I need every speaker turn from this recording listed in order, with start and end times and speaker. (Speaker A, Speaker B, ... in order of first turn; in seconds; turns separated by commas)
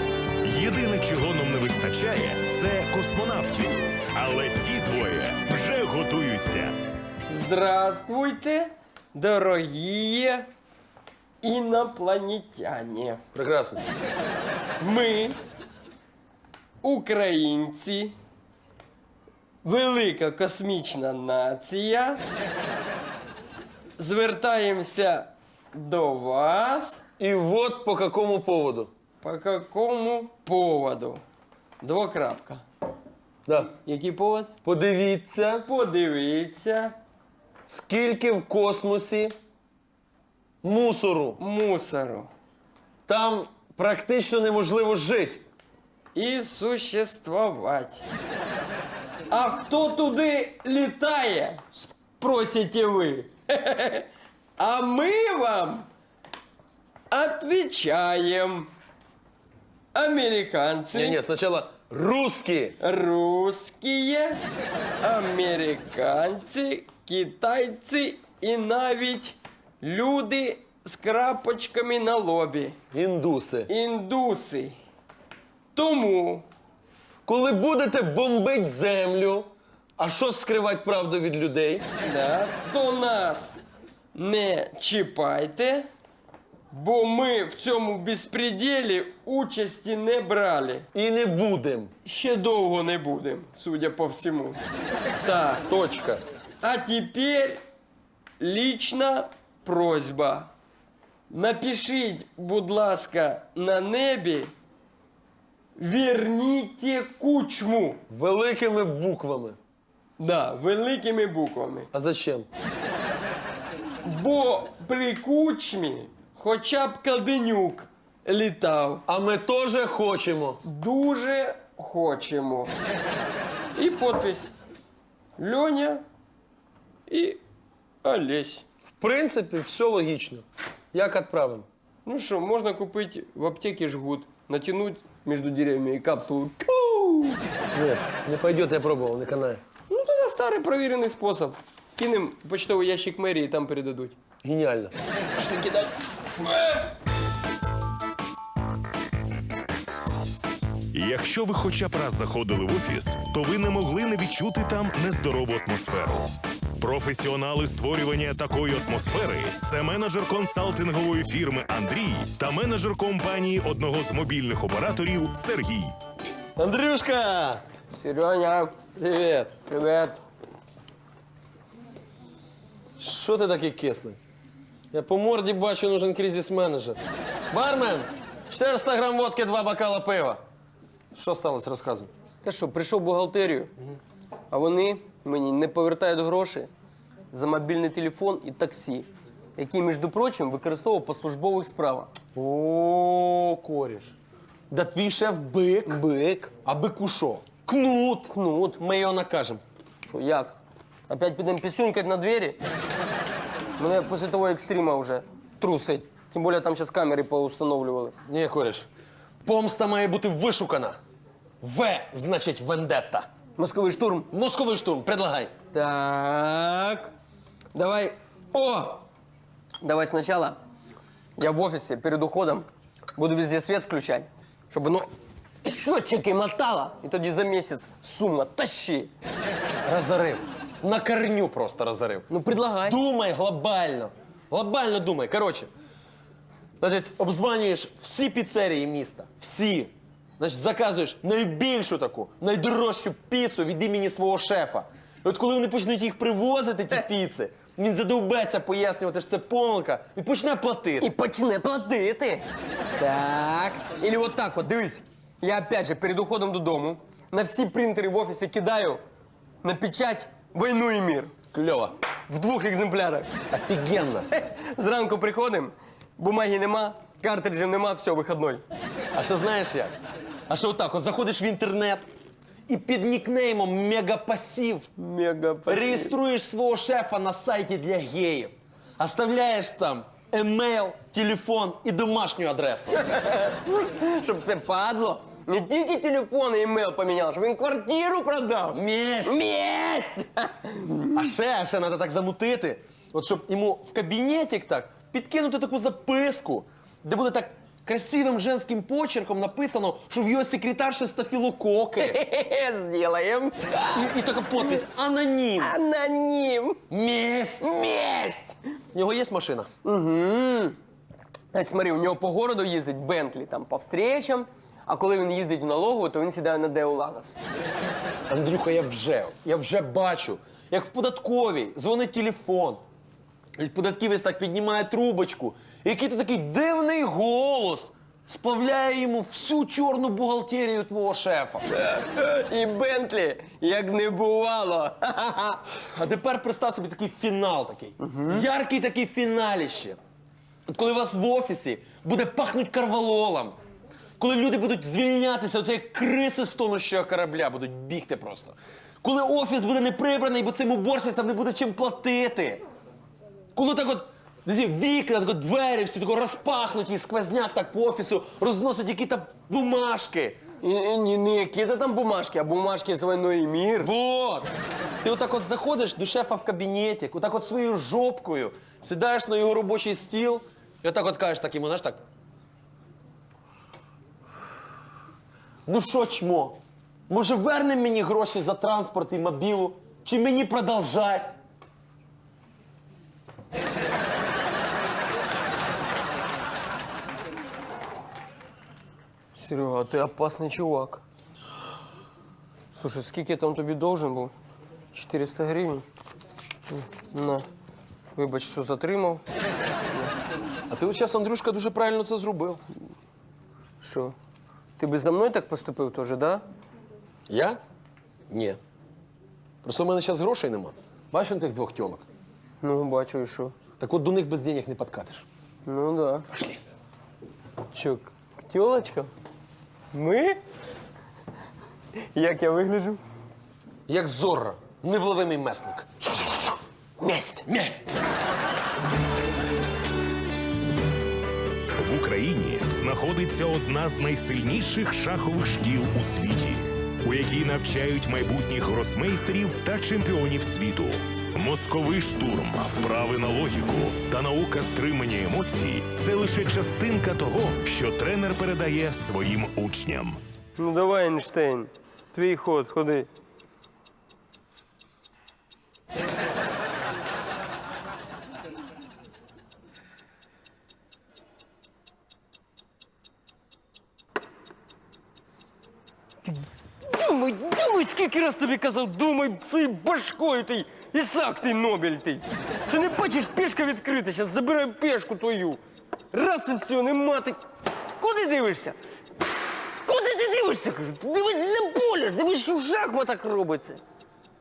Speaker A: 0.4-6.8, Speaker B: 7.3-10.5, Speaker B: 11.4-13.2, Speaker C: 13.3-13.8, Speaker B: 14.8-15.4, Speaker B: 16.8-18.1, Speaker B: 19.6-22.2, Speaker B: 24.0-27.0, Speaker C: 27.2-28.9, Speaker B: 29.2-31.2, Speaker B: 31.8-32.6, Speaker B: 33.7-34.5, Speaker C: 34.6-35.6, Speaker B: 35.6-37.0, Speaker C: 37.7-39.3, Speaker C: 40.6-41.4, Speaker B: 41.4-42.3, Speaker C: 43.1-45.4, Speaker B: 46.1-48.0, Speaker B: 49.3-54.1, Speaker B: 54.6-55.9, Speaker B: 57.1-58.7, Speaker B: 59.9-61.2, Speaker C: 60.9-62.8, Speaker B: 62.8-64.4, Speaker B: 65.0-72.8, Speaker C: 72.9-73.7, Speaker B: 73.7-74.8, Speaker B: 75.7-76.5, Speaker C: 77.2-81.8, Speaker B: 82.0-83.6, Speaker B: 84.1-85.9, Speaker B: 86.7-90.9, Speaker C: 90.9-91.9, Speaker B: 92.0-94.6, Speaker B: 95.2-95.6, Speaker C: 95.7-96.2, Speaker B: 96.6-97.6, Speaker B: 98.4-100.5, Speaker B: 101.3-104.5, Speaker B: 105.8-108.0, Speaker C: 108.1-109.6, Speaker B: 110.2-111.9, Speaker C: 111.9-112.5, Speaker B: 114.0-119.0, Speaker C: 119.1-120.6, Speaker B: 120.6-122.7, Speaker B: 123.7-124.5, Speaker B: 125.4-126.0, Speaker B: 127.1-127.4, Speaker B: 128.0-128.6, Speaker C: 129.0-131.7, Speaker B: 132.0-137.4, Speaker C: 137.7-139.6, Speaker B: 139.9-144.2, Speaker C: 144.4-144.9, Speaker B: 145.4-145.9, Speaker B: 146.4-146.8, Speaker A: 150.9-165.9, Speaker C: 166.6-167.6, Speaker B: 167.9-168.9, Speaker C: 168.9-169.5, Speaker B: 169.5-170.2, Speaker C: 173.0-174.2, Speaker C: 174.9-177.0, Speaker C: 177.5-180.4, Speaker C: 181.1-182.1, Speaker B: 182.4-183.7, Speaker B: 184.5-186.7, Speaker B: 187.3-192.1, Speaker C: 192.3-194.1, Speaker C: 194.7-199.6, Speaker B: 195.9-196.4, Speaker B: 198.3-198.8, Speaker B: 200.1-200.6, Speaker B: 201.1-202.6, Speaker B: 203.8-208.2, Speaker C: 208.2-208.9, Speaker C: 209.4-211.0, Speaker C: 211.6-213.3, Speaker B: 213.6-214.3, Speaker C: 214.3-215.5, Speaker B: 215.7-217.1, Speaker B: 217.7-219.0, Speaker B: 219.8-220.6, Speaker B: 221.4-225.1, Speaker B: 225.6-229.1, Speaker C: 229.8-232.3, Speaker B: 232.3-233.0, Speaker C: 232.8-235.7, Speaker C: 236.8-251.1, Speaker B: 251.0-252.4, Speaker B: 253.0-259.0, Speaker B: 259.6-261.3, Speaker C: 261.5-261.9, Speaker B: 262.3-263.3, Speaker C: 263.5-264.3, Speaker B: 264.3-268.6, Speaker C: 269.1-269.9, Speaker C: 270.5-272.0, Speaker C: 272.7-274.9, Speaker B: 275.0-276.1, Speaker C: 275.7-282.9, Speaker B: 282.9-291.3, Speaker C: 288.7-289.4, Speaker C: 291.1-302.2, Speaker B: 302.0-304.1, Speaker C: 303.9-305.8, Speaker B: 305.6-306.8, Speaker C: 306.9-307.8, Speaker B: 307.6-308.6, Speaker C: 308.9-309.7, Speaker B: 309.8-310.8, Speaker B: 311.5-317.4, Speaker C: 318.3-322.8, Speaker C: 323.6-331.6, Speaker B: 331.7-335.6, Speaker C: 335.8-340.0, Speaker B: 338.0-338.4, Speaker C: 340.7-343.6, Speaker C: 344.2-352.6, Speaker C: 353.5-360.4, Speaker B: 360.6-363.9, Speaker C: 363.8-364.5, Speaker C: 365.0-372.0, Speaker C: 375.6-381.4, Speaker B: 389.3-391.0, Speaker B: 392.7-394.3, Speaker B: 394.9-395.8, Speaker B: 396.7-397.4, Speaker B: 398.1-399.2, Speaker C: 400.7-402.6, Speaker B: 403.8-404.1, Speaker B: 404.8-406.4, Speaker C: 407.3-407.6, Speaker C: 408.3-408.6, Speaker C: 409.6-412.0, Speaker B: 412.6-413.5, Speaker C: 413.8-415.3, Speaker B: 415.6-416.3, Speaker C: 416.3-416.6, Speaker B: 417.7-419.1, Speaker B: 419.9-420.4, Speaker B: 422.1-423.0, Speaker C: 423.9-426.5, Speaker B: 427.0-427.5, Speaker C: 427.4-427.9, Speaker A: 431.8-450.2, Speaker B: 450.6-453.1, Speaker B: 466.2-475.6, Speaker B: 476.1-477.4, Speaker B: 478.0-478.8, Speaker B: 479.9-483.8